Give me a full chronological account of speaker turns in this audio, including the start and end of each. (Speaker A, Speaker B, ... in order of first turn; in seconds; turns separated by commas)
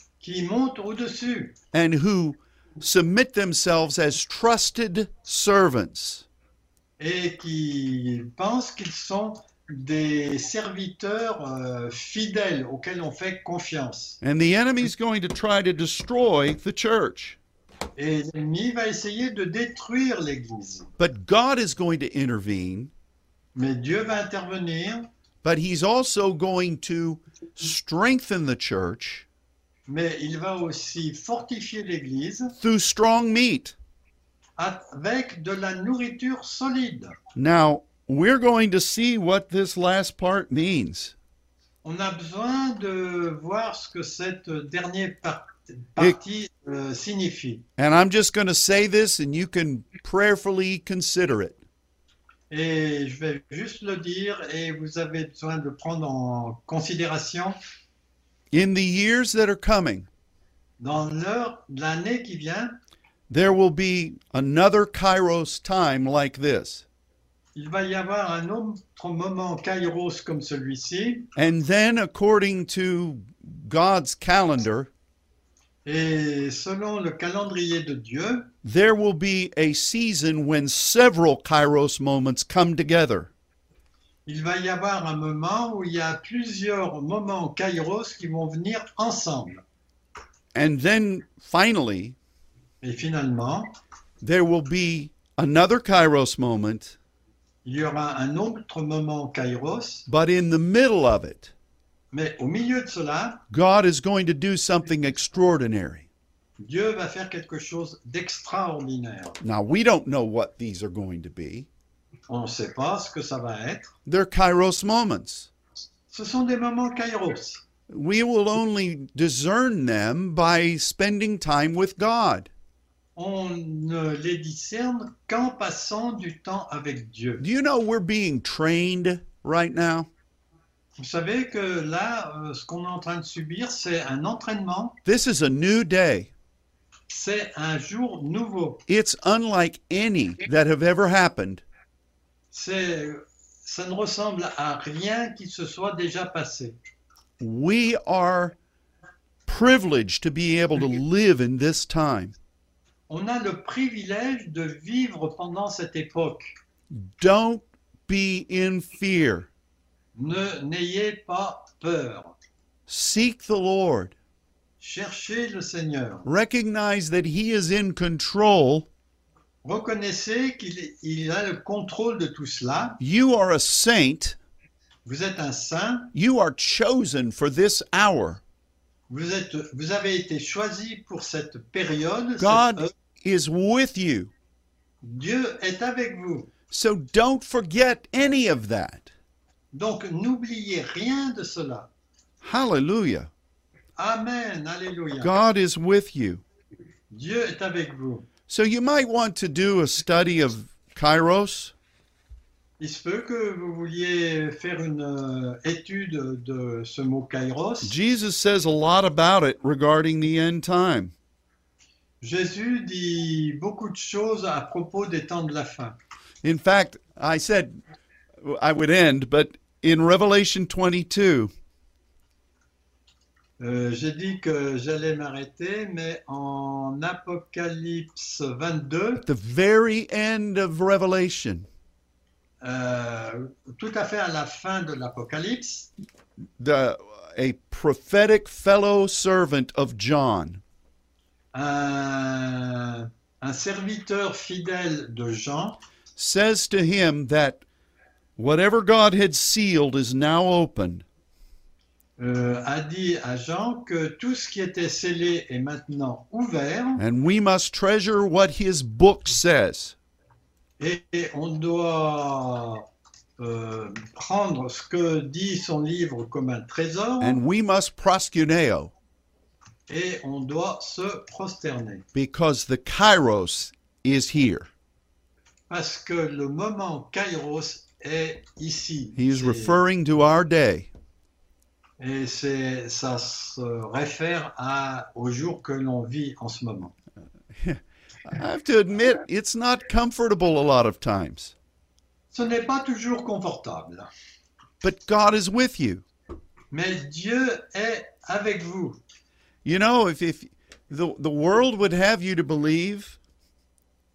Speaker A: 0.2-1.6, Speaker B: 1.7-6.2, Speaker A: 7.0-14.2, Speaker B: 14.2-17.4, Speaker A: 17.9-20.9, Speaker B: 21.0-22.9, Speaker A: 23.5-25.1, Speaker B: 25.4-29.2, Speaker A: 29.9-32.5, Speaker B: 32.5-33.8, Speaker A: 34.6-37.1, Speaker B: 37.4-41.1, Speaker A: 41.8-47.6, Speaker B: 47.8-51.6, Speaker A: 52.5-57.6, Speaker B: 58.5-60.1, Speaker A: 60.8-62.8, Speaker B: 63.3-66.8, Speaker A: 67.5-71.3, Speaker B: 71.3-74.9, Speaker A: 75.8-78.5, Speaker B: 78.6-83.3, Speaker A: 84.2-89.6, Speaker B: 90.5-92.2, Speaker A: 92.8-93.8, Speaker B: 94.2-97.0, Speaker A: 97.6-100.0, Speaker B: 100.1-101.5, Speaker A: 102.1-103.4, Speaker B: 103.5-106.1, Speaker A: 106.6-109.4, Speaker B: 109.4-111.7, Speaker A: 112.3-113.9, Speaker B: 114.0-115.5, Speaker A: 116.1-117.6, Speaker B: 117.9-122.5, Speaker A: 123.2-127.4, Speaker B: 127.4-130.1, Speaker A: 131.0-135.0, Speaker B: 135.0-136.3, Speaker A: 137.1-138.8, Speaker B: 138.9-141.6, Speaker A: 142.5-146.8, Speaker B: 147.4-148.6, Speaker B: 149.4-152.3, Speaker A: 153.1-156.5, Speaker B: 156.9-159.5, Speaker A: 160.1-162.3, Speaker B: 162.9-164.2, Speaker A: 164.8-166.3, Speaker B: 166.2-168.9, Speaker A: 169.6-173.0, Speaker B: 173.0-174.4, Speaker A: 175.0-176.1, Speaker B: 176.1-178.4, Speaker A: 179.1-182.9, Speaker B: 182.4-184.3, Speaker A: 185.0-186.5, Speaker B: 186.7-189.1, Speaker A: 189.7-191.9, Speaker B: 192.4-193.3, Speaker A: 194.0-195.3, Speaker B: 195.2-196.4, Speaker A: 197.1-198.3, Speaker B: 198.5-201.7, Speaker A: 202.8-207.9, Speaker B: 207.8-211.1, Speaker A: 212.2-216.0, Speaker B: 216.4-217.8, Speaker B: 218.4-221.5, Speaker A: 223.6-229.2, Speaker B: 229.2-231.7, Speaker A: 232.6-235.9, Speaker B: 236.6-240.6, Speaker A: 241.5-245.8, Speaker B: 246.2-247.6, Speaker B: 248.4-251.0, Speaker A: 252.2-257.0, Speaker B: 257.0-259.9, Speaker A: 260.8-262.8, Speaker A: 263.4-267.4, Speaker B: 267.2-268.9, Speaker A: 269.9-272.0, Speaker B: 272.1-274.7, Speaker A: 275.7-279.8, Speaker B: 279.1-280.9, Speaker A: 282.0-286.9, Speaker B: 287.6-291.5, Speaker A: 292.3-294.1, Speaker B: 294.8-296.0, Speaker A: 296.7-299.0, Speaker B: 299.6-303.2